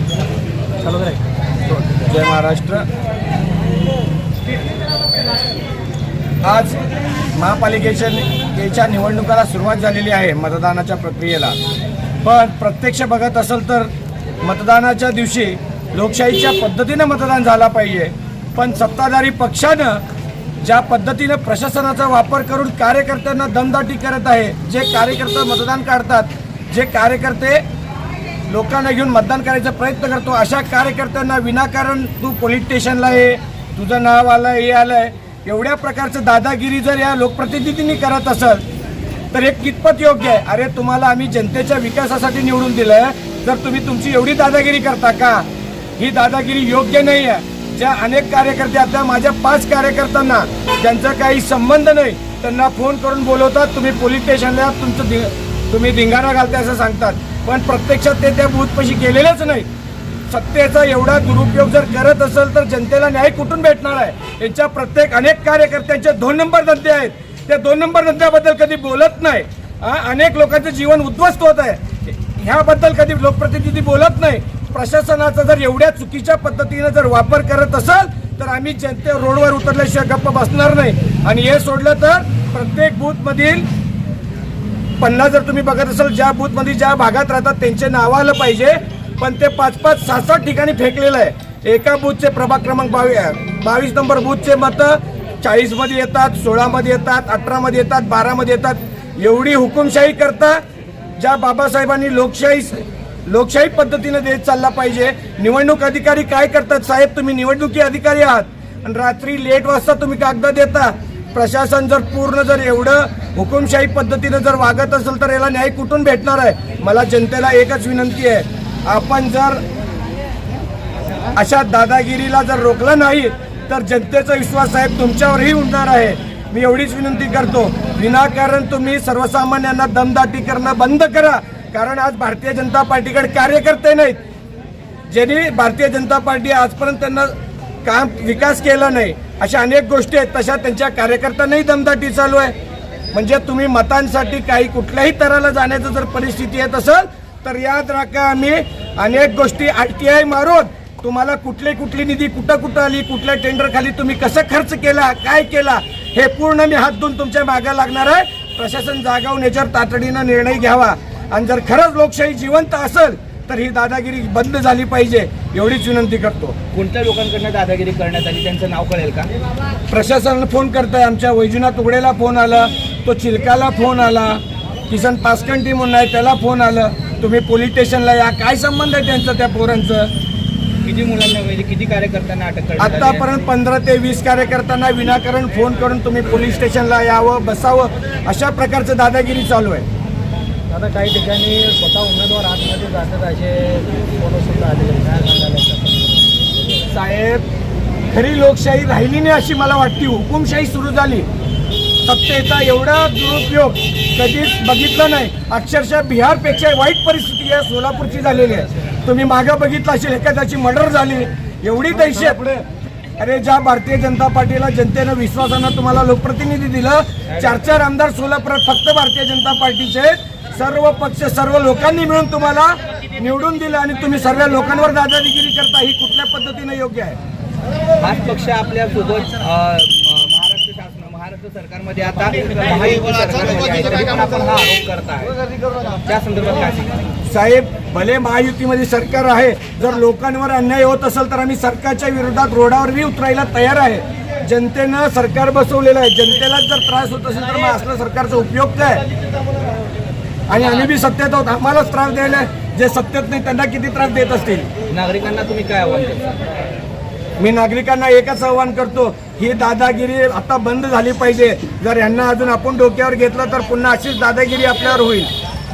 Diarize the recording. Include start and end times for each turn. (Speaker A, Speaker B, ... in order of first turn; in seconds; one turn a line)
Speaker A: 0.8-1.2
Speaker B: 2.0-2.9
Speaker B: 6.4-6.8
Speaker B: 7.3-11.6
Speaker B: 12.2-13.9
Speaker B: 14.4-20.0
Speaker B: 20.6-27.6
Speaker B: 28.5-38.6
Speaker B: 39.3-45.5
Speaker B: 46.0-59.7
Speaker B: 60.3-83.7
Speaker B: 85.0-100.6
Speaker B: 101.2-119.6
Speaker B: 121.3-134.2
Speaker B: 135.1-142.5
Speaker B: 143.1-166.6
Speaker C: 166.7-169.3
Speaker B: 169.9-180.1
Speaker C: 180.8-183.3
Speaker B: 182.8-189.8
Speaker A: 190.7-196.4
Speaker B: 196.9-197.4
Speaker B: 198.1-201.3
Speaker B: 202.0-212.6
Speaker B: 213.2-227.2
Speaker C: 228.0-237.0
Speaker B: 237.2-249.0
Speaker B: 250.5-254.7
Speaker C: 254.9-256.3
Speaker B: 257.4-265.3